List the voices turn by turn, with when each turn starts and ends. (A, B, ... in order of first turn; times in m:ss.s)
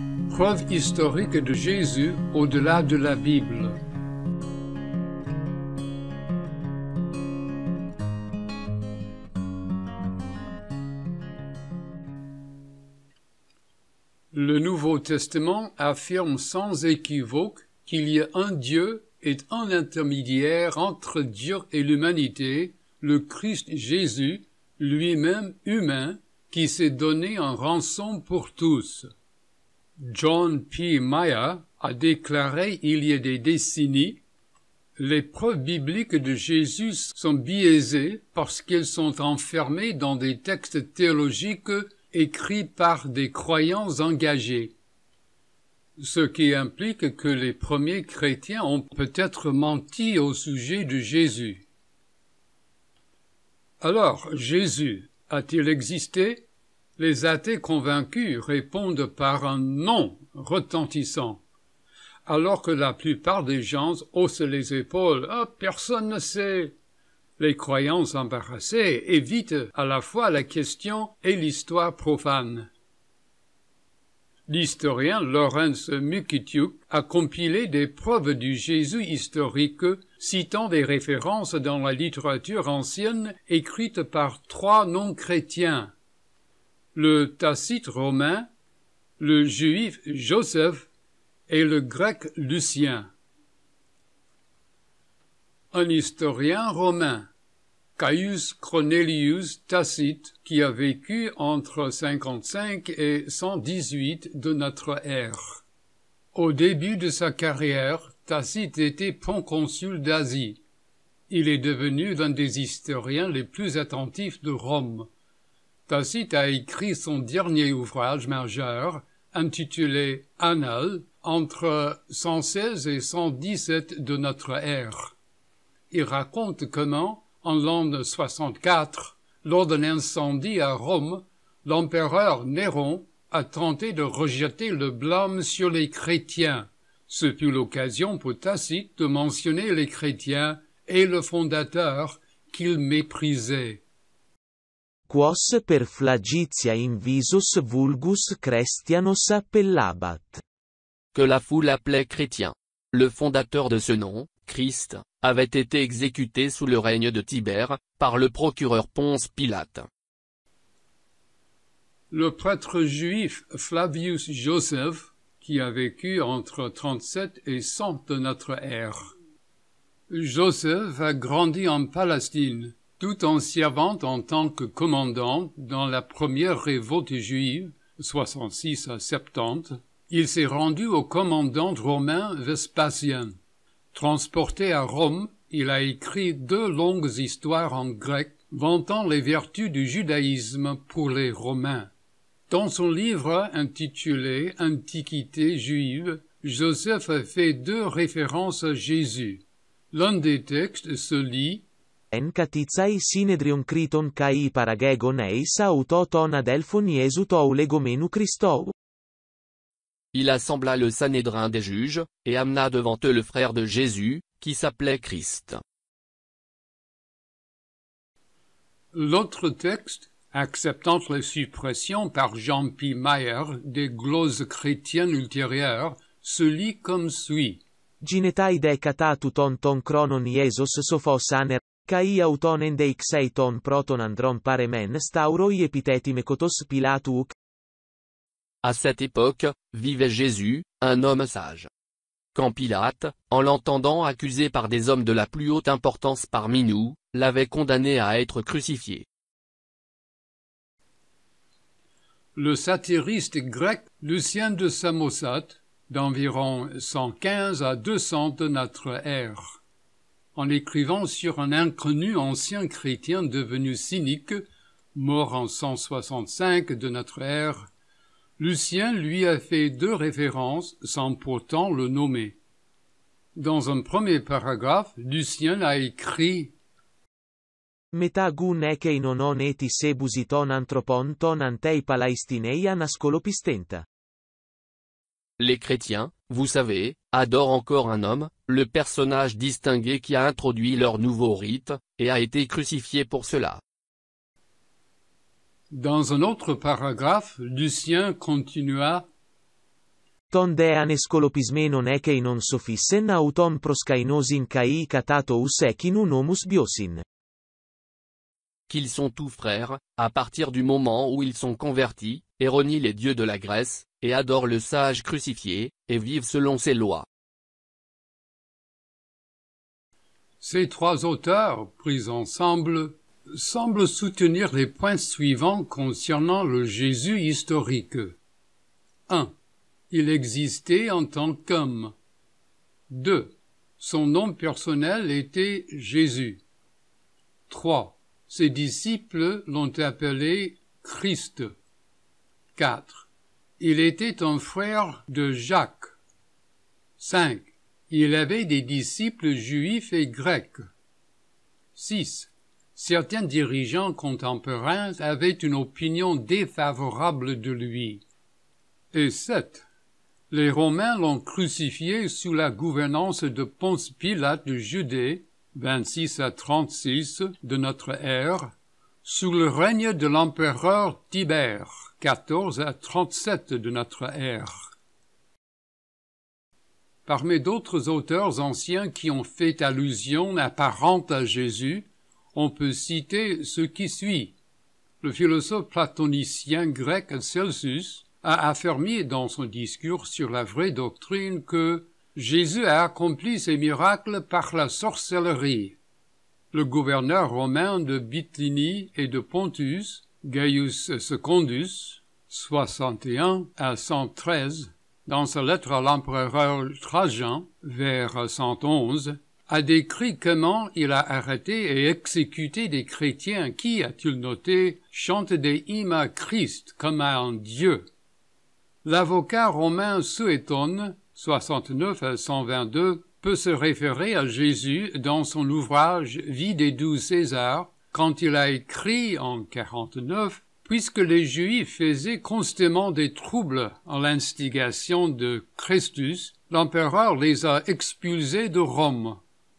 0:00.3-0:03.8 A
0:14.3-0:29.1 A
0:30.0-0:34.2 A
0:35.0-0:44.7 A
0:46.0-0:51.6 A
0:53.8-0:56.4 A
0:57.0-1:01.4 A
1:02.3-1:06.7 A
1:07.4-1:12.7 A
1:14.5-1:25.9 A
1:26.9-1:28.5 A
1:29.2-1:30.9 A
1:31.5-1:33.1 A
1:35.7-1:37.3 A
1:38.0-1:45.6 A
1:46.4-1:50.6 A
1:51.3-1:55.1 A
1:55.9-2:05.2 A
2:05.9-2:23.8 A
2:25.1-2:30.4 B
2:31.2-2:39.9 C
2:42.1-2:49.1 A
2:50.1-3:03.4 A
3:03.9-3:11.9 A
3:12.5-3:21.7 A
3:22.1-3:28.7 B
3:30.1-3:35.6 C
3:38.9-3:47.6 A
3:48.0-3:57.4 B
3:58.6-4:01.7 C
4:02.4-4:09.1 C
4:12.4-4:19.6 A
4:20.4-4:24.4 A
4:25.0-4:27.7 A
4:28.4-4:32.4 A
4:33.4-4:36.5 A
4:37.9-4:43.8 B
4:45.4-4:53.6 C
4:55.7-4:59.1 A
5:00.3-5:07.0 B
5:08.7-5:17.1 C
5:20.4-5:28.2 A
5:29.1-5:29.3 A
5:29.9-5:31.9 A
5:32.9-5:36.4 A
5:37.5-5:41.5 A
5:42.6-5:43.1 A
5:43.6-5:45.9 A
5:47.0-5:50.6 A
5:51.8-5:58.0 A
5:58.9-5:59.6 A
6:00.3-6:08.5 A
6:09.0-6:14.7 A
6:17.1-6:24.4 A
6:25.0-6:35.8 A
6:36.5-6:57.8 A
6:58.8-7:19.2 A